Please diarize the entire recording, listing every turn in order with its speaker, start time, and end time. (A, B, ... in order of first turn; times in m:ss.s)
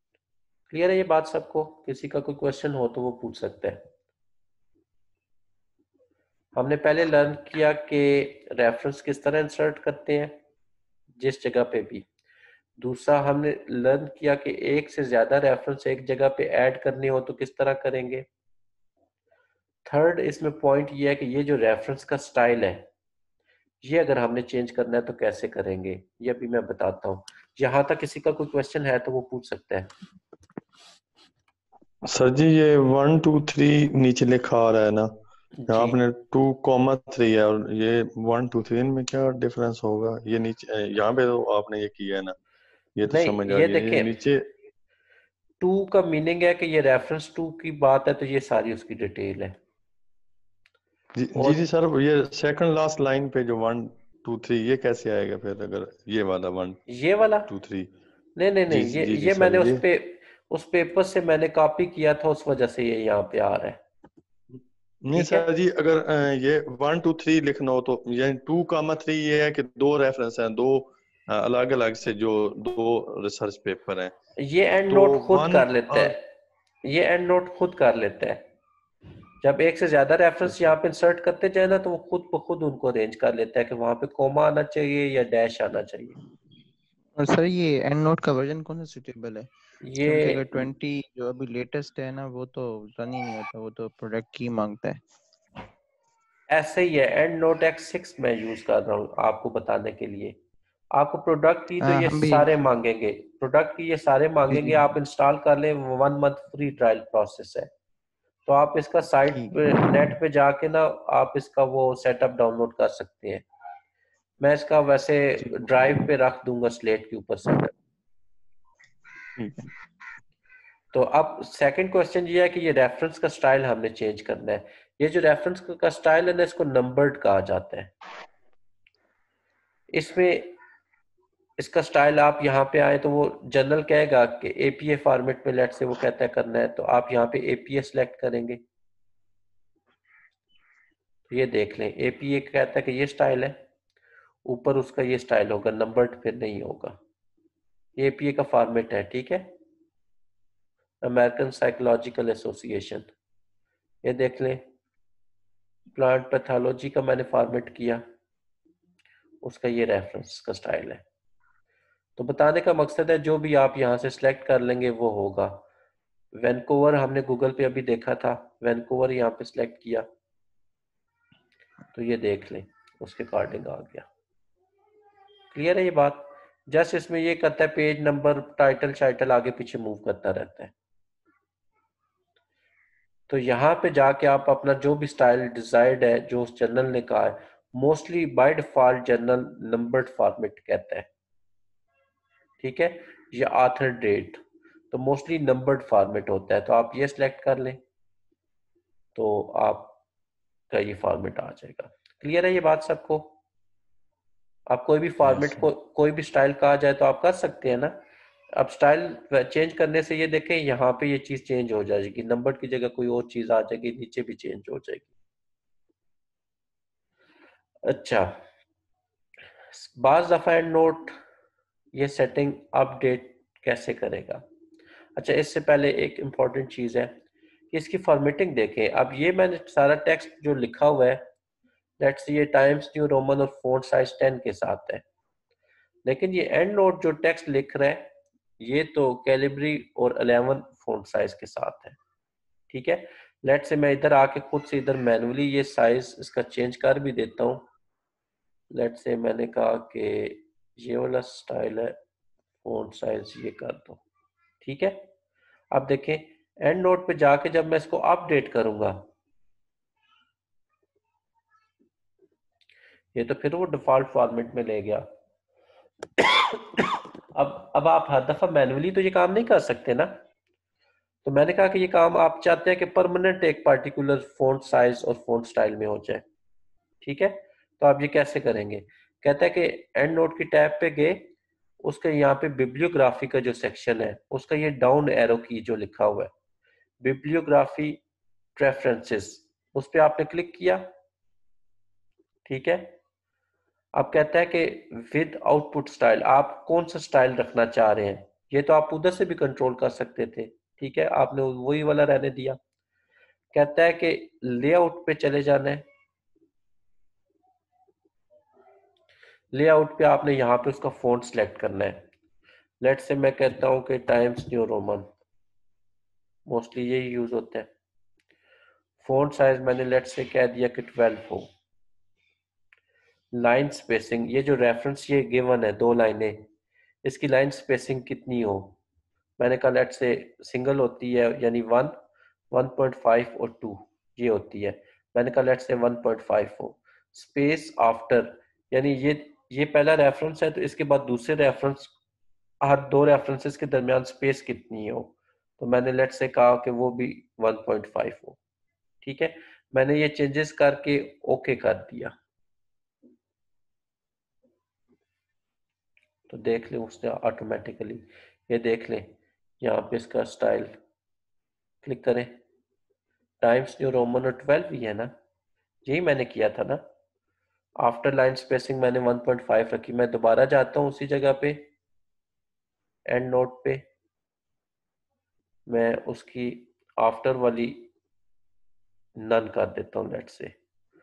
0:00.7-0:03.9 A
0:06.5-0:10.4 A
0:11.2-0:12.1 A
0:12.8-0:18.2 A
0:19.8-0:22.9 A
0:23.8-0:29.9 A
0:32.1-0:35.1 B
0:35.6-0:36.0 A
0:35.7-0:42.3 B
0:43.0-0:44.4 B
0:43.0-0:44.1 A
0:45.6-0:49.6 A
0:51.2-0:56.8 B
0:51.3-0:51.6 A
0:56.9-0:57.5 A
0:57.5-0:57.9 B
0:58.4-1:03.8 A
0:58.7-0:59.8 B
1:05.0-1:14.1 B
1:05.1-1:05.5 A
1:14.4-1:16.2 A
1:14.9-1:16.1 B
1:16.8-1:18.4 A
1:19.4-1:26.2 A
1:27.2-1:35.0 C
1:29.8-1:30.5 A
1:36.5-1:40.4 A
1:40.9-1:47.7 A
1:41.8-1:42.5 C
1:44.5-1:44.9 C
1:48.4-1:53.4 A
1:49.3-1:49.6 C
1:54.4-1:57.7 A
2:00.9-2:07.9 A
2:09.9-2:10.6 A
2:11.6-2:18.6 A
2:21.3-2:23.6 A
2:24.4-2:27.0 A
2:28.0-2:29.4 A
2:31.0-2:33.1 A
2:34.0-2:34.6 A
2:35.9-2:38.0 A
2:39.4-2:41.0 A
2:42.2-2:45.6 A
2:46.4-2:50.0 A
2:51.9-2:54.0 A
2:55.5-3:00.7 A
3:03.3-3:11.1 A
3:12.6-3:17.8 A
3:19.2-3:20.0 A
3:20.7-3:23.4 A
3:24.7-3:28.0 A
3:25.3-3:25.6 C
3:28.5-3:35.1 A
3:37.8-3:38.4 A
3:39.7-3:41.2 A
3:41.9-3:44.4 A
3:45.2-3:47.1 A
3:47.7-3:51.2 A
3:52.0-3:55.0 A
3:56.0-4:02.0 A
4:02.7-4:07.6 A
4:08.7-4:12.0 A
4:12.6-4:14.0 A
4:14.6-4:15.0 A
4:15.7-4:19.1 A
4:23.1-4:25.0 A
4:26.2-4:30.2 A
4:31.2-4:36.2 A
4:37.0-4:41.3 A
4:41.8-4:46.3 A
4:47.0-4:48.0 A
4:48.6-4:50.9 A
4:52.4-4:53.0 A
4:53.9-5:02.6 A
5:03.5-5:05.8 A
5:09.5-5:12.0 A
5:12.8-5:15.1 A
5:16.5-5:17.7 A
5:19.0-5:21.5 A
5:23.3-5:26.5 A
5:27.0-5:28.8 A
5:29.4-5:31.9 A
5:32.5-5:41.9 A
5:42.6-5:48.4 A
5:49.0-5:52.1 A
5:56.3-6:00.7 A
6:01.8-6:02.4 A
6:03.4-6:05.1 A
6:05.8-6:06.8 A
6:07.8-6:11.6 A
6:13.1-6:13.8 A
6:15.7-6:17.9 A
6:19.2-6:20.5 A